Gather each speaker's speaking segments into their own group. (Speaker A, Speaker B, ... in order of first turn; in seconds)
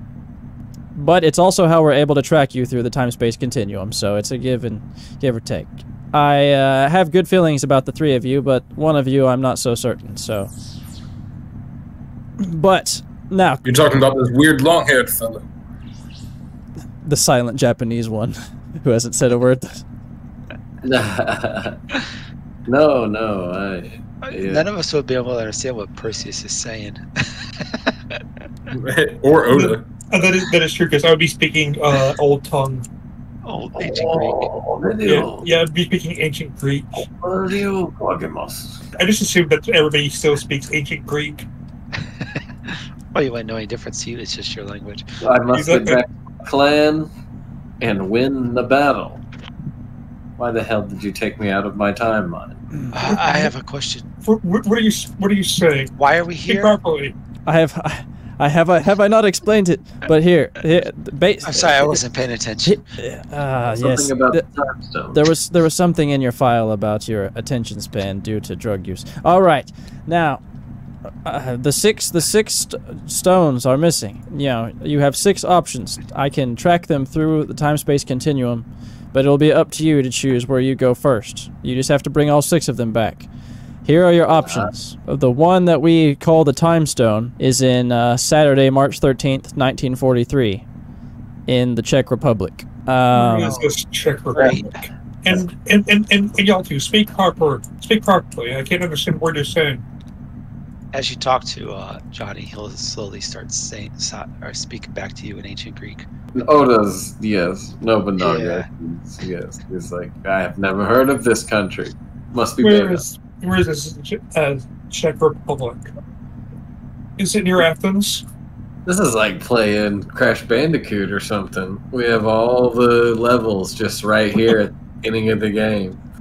Speaker A: 0.9-10.5, 12.4-13.7, 17.0-19.9, 52.8-53.2, 57.5-62.0, 62.6-64.5, 65.1-70.4, 71.2-83.3, 83.8-90.7, 91.5-93.6
Speaker B: 13.7-15.4, 28.7-29.9
Speaker C: 20.8-21.8, 22.7-24.7, 33.8-35.5, 37.0-38.8, 45.2-47.1, 47.8-49.2, 50.4-52.6, 63.8-65.2, 94.3-94.7, 106.3-113.0, 118.9-126.0
Speaker D: 24.2-28.2, 33.4-34.5, 42.0-45.1, 52.9-54.1, 56.0-56.8, 61.5-62.8, 93.4-93.8, 94.4-94.7, 100.9-106.1, 108.2-108.7
Speaker E: 29.5-32.9, 35.0-37.1, 39.0-41.5, 45.5-46.0, 53.1-53.4, 54.2-55.9, 56.5-57.1, 93.1-99.8, 112.6-115.9, 117.2-118.2